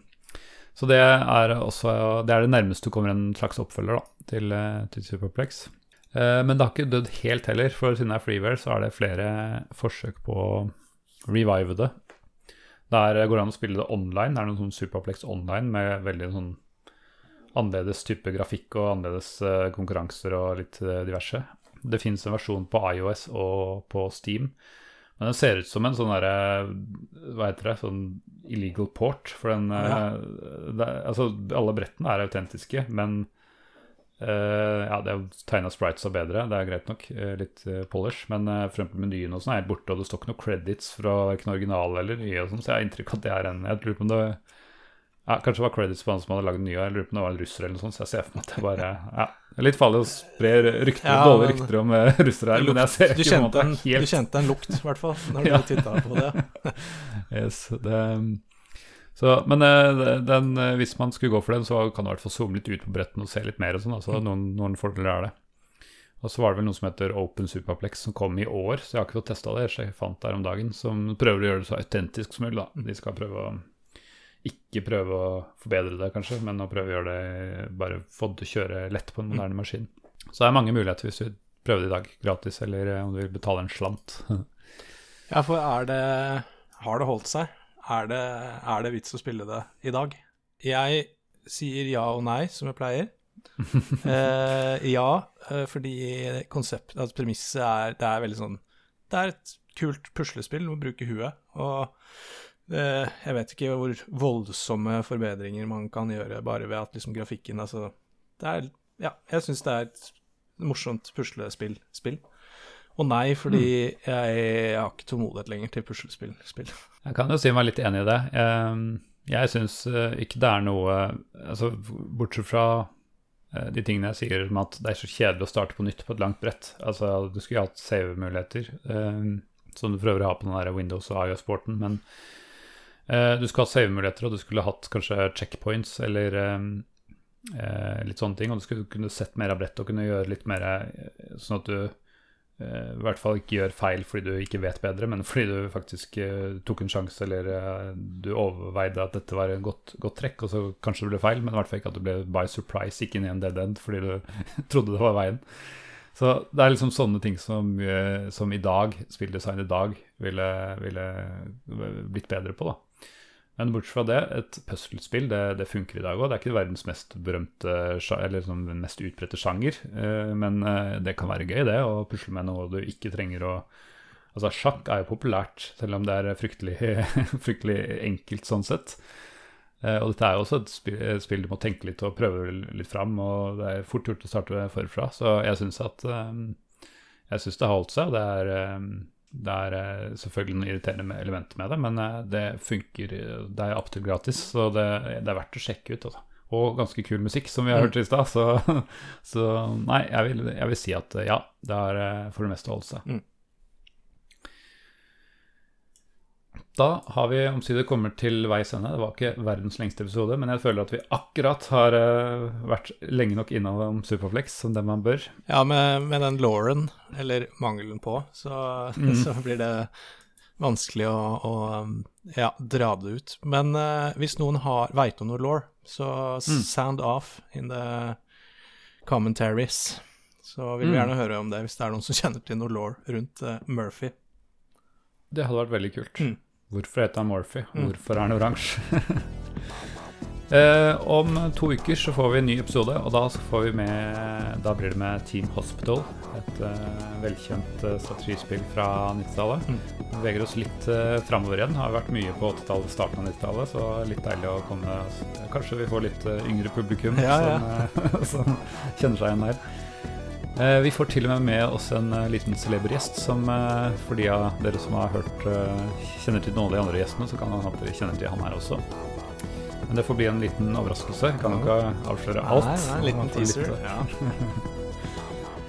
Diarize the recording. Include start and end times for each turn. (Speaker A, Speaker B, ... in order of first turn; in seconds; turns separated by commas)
Speaker A: 0.8-10.7, Speaker A: 11.3-11.9, Speaker A: 12.9-16.6, Speaker A: 17.5-24.6, Speaker A: 25.2-33.3, Speaker A: 34.2-44.4, Speaker A: 45.3-54.8, Speaker B: 51.0-51.7, Speaker B: 52.5-56.8, Speaker A: 55.3-58.4, Speaker A: 59.1-65.3, Speaker A: 66.2-73.6, Speaker A: 74.4-84.5, Speaker B: 85.3-93.1, Speaker B: 94.0-112.2, Speaker B: 113.0-116.8, Speaker A: 117.0-122.9, Speaker A: 123.5-132.0, Speaker A: 133.1-136.9, Speaker A: 137.4-141.9, Speaker A: 142.6-162.8, Speaker A: 163.6-173.7, Speaker A: 174.3-179.0, Speaker A: 179.8-186.6, Speaker A: 187.3-203.1, Speaker A: 206.7-215.3, Speaker B: 215.5-219.9, Speaker A: 219.0-219.3, Speaker B: 220.6-228.2, Speaker B: 229.1-234.1, Speaker A: 230.8-231.1, Speaker A: 235.3-239.9, Speaker A: 240.5-259.7, Speaker B: 257.1-257.6, Speaker A: 260.6-268.8, Speaker A: 269.9-274.7, Speaker B: 271.4-271.7, Speaker B: 272.4-274.1